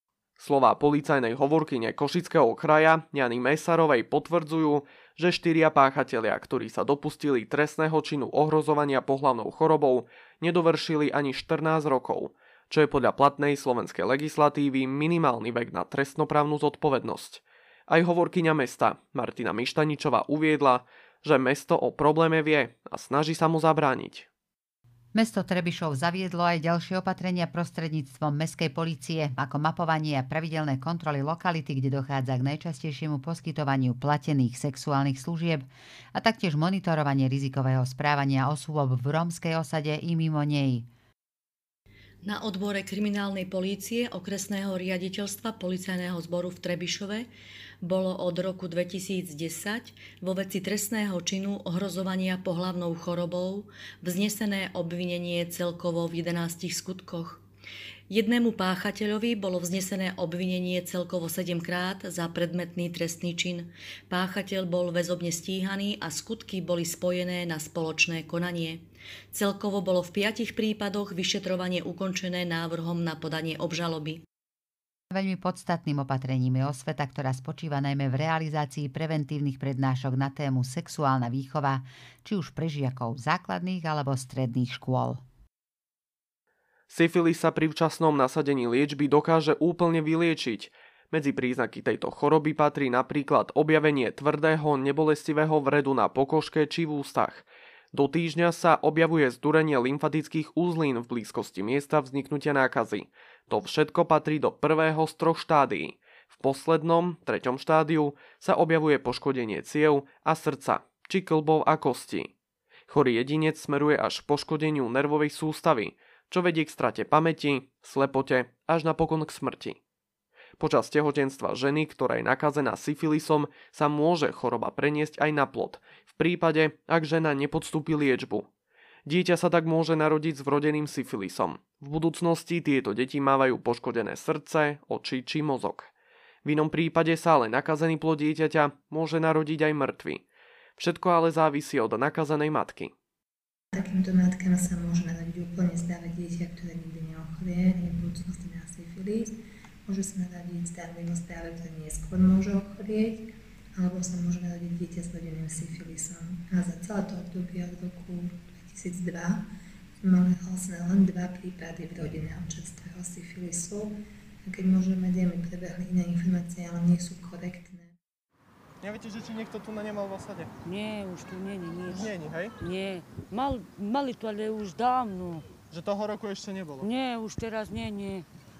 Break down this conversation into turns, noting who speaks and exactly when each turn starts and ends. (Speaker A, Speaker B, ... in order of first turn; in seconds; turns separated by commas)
Speaker A: 0.4-24.3, Speaker B: 25.1-40.9, Speaker C: 42.2-47.3, Speaker C: 47.8-57.4, Speaker C: 58.1-74.2, Speaker B: 75.1-85.2, Speaker A: 86.9-112.3, Speaker A: 112.9-119.8, Speaker A: 120.6-128.5, Speaker A: 129.1-135.9, Speaker A: 136.4-140.2, Speaker A: 140.8-142.9, Speaker D: 143.7-159.4, Speaker D: 160.0-167.9, Speaker E: 168.8-170.5, Speaker F: 170.6-175.5, Speaker E: 171.9-172.5, Speaker E: 175.7-176.9, Speaker F: 176.8-178.2